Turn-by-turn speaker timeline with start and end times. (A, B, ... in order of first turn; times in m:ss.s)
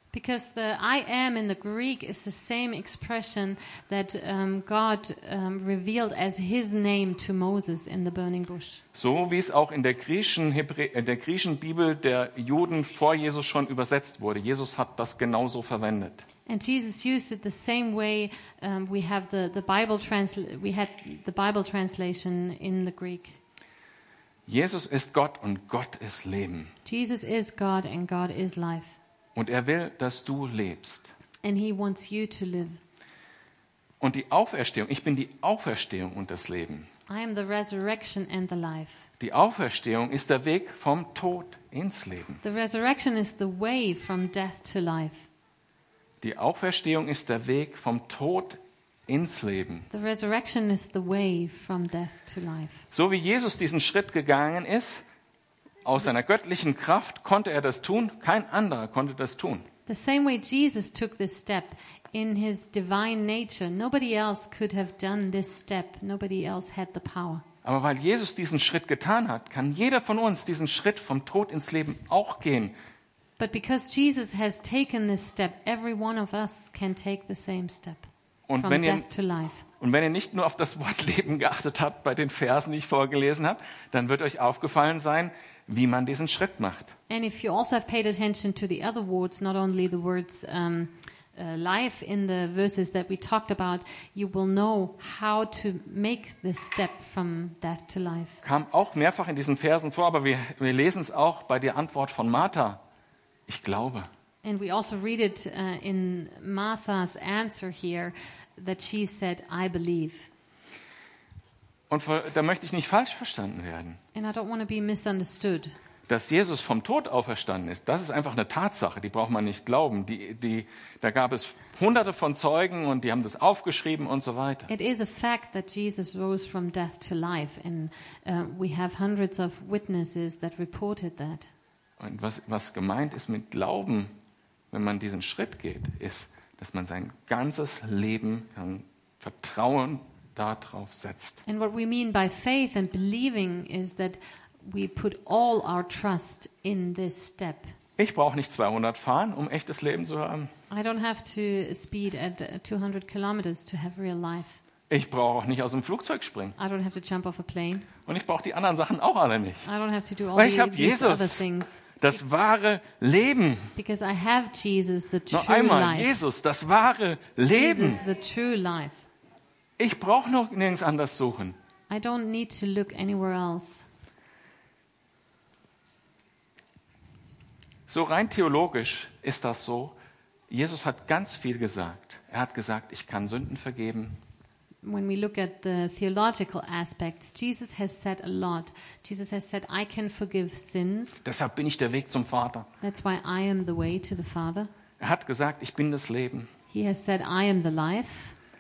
0:00.1-0:08.8 A
0:08.9-0:16.2 B
0:16.5-0:23.4 A
0:24.5-0:26.7 B
0:26.8-0:29.0 A
0:29.4-0:31.1 B
0:31.4-0:32.8 A
0:34.0-0:36.9 B
0:37.1-0:39.1 A
0:39.2-0:42.4 B
0:42.4-0:45.3 A
0:46.2-0:49.9 B
0:49.9-0:52.8 A
0:52.9-0:55.0 B
0:55.8-0:59.7 B
0:59.9-1:07.4 A
1:07.6-1:12.7 B
1:13.4-1:18.1 A
1:18.5-1:19.0 B
1:18.6-1:19.6 A
1:19.8-1:27.0 B
1:27.1-1:38.4 A
1:38.4-1:42.8 B
1:43.5-1:44.1 B
1:44.4-1:50.3 A
1:51.9-1:54.0 B
1:54.1-1:55.8 A
1:56.1-2:04.7 B
2:04.7-2:11.5 A
2:12.0-2:14.1 B
2:14.7-2:21.4 B
2:21.5-2:27.7 A
2:28.0-2:30.5 B
2:30.7-2:34.6 A
2:34.9-2:36.6 B
2:36.6-2:37.9 A
2:38.1-2:39.7 B
2:39.6-2:41.8 A
2:40.4-2:41.4 B
2:42.0-2:43.7 B
2:43.8-2:46.2 A
2:45.3-2:48.0 B
2:47.5-2:49.1 A
2:49.8-2:51.6 B
2:51.9-2:53.8 A
2:57.9-3:00.0 B
3:00.5-3:04.2 B
3:04.8-3:11.2 A
3:11.2-3:12.7 B
3:12.8-3:14.7 A
3:15.0-3:16.5 B
3:16.7-3:18.4 A